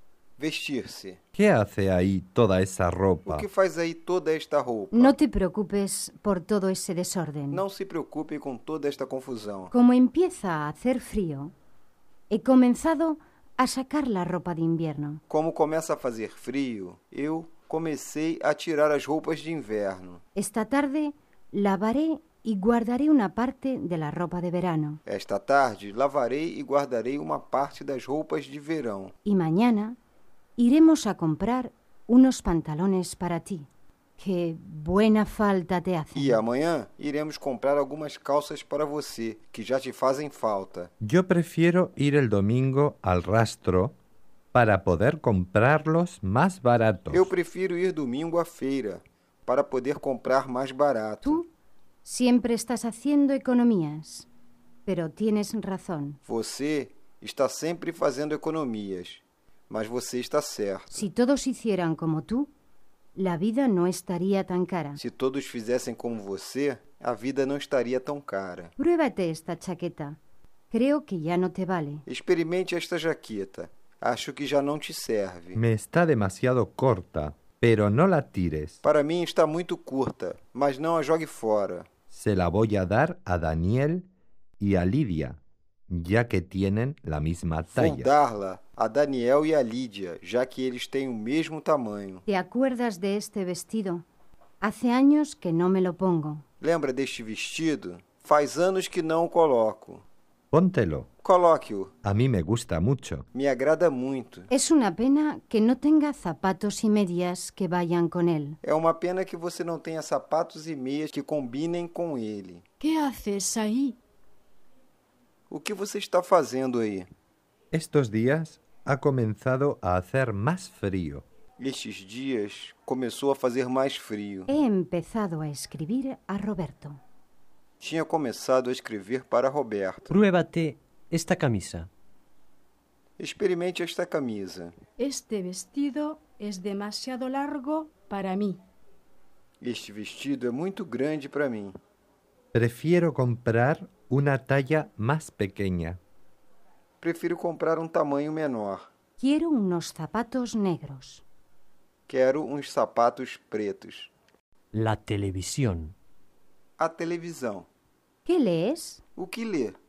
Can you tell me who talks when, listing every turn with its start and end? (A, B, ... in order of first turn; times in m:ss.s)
0:00.4-0:01.2 A
0:01.4-0:03.5 B
0:03.3-0:05.2 A
0:04.9-0:07.6 C
0:07.5-0:09.7 A
0:09.7-0:11.5 C
0:12.3-0:15.2 C
0:15.3-0:20.2 A
0:20.4-0:25.0 C
0:25.0-0:29.1 A
0:29.2-0:30.0 C
0:30.6-0:36.4 C
0:36.2-0:40.9 A
0:41.0-0:44.0 B
0:44.5-0:47.3 B
0:47.1-0:51.4 A
0:52.0-0:54.3 C
0:54.9-0:56.2 C
0:56.2-1:01.1 A
1:00.9-1:02.5 C
1:03.2-1:05.0 C
1:05.0-1:08.7 A
1:08.8-1:10.2 C
1:10.7-1:12.0 C
1:12.1-1:15.6 A
1:15.6-1:18.8 B
1:18.8-1:21.9 A
1:22.1-1:24.0 B
1:24.6-1:25.4 B
1:25.9-1:28.1 B
1:27.7-1:32.2 A
1:32.3-1:34.0 C
1:34.6-1:36.4 C
1:36.6-1:40.0 A
1:40.5-1:41.1 B
1:41.2-1:41.9 A
1:42.0-1:43.3 B
1:43.3-1:44.5 A
1:44.5-1:48.6 C
1:48.6-1:52.6 A
1:52.8-1:54.0 D
1:55.5-1:57.1 A
1:57.7-2:01.2 B
2:01.6-2:04.5 A
2:04.5-2:07.0 C
2:07.8-2:10.2 A
2:10.1-2:11.9 E
2:13.2-2:14.7 A
2:15.0-2:18.6 D
2:19.6-2:21.8 A
2:22.5-2:26.0 B
2:27.0-2:28.9 A
2:29.2-2:31.2 C
2:32.1-2:34.1 A
2:34.7-2:35.9 E
2:36.8-2:37.7 A
2:38.2-2:39.0 C
2:39.2-2:39.8 A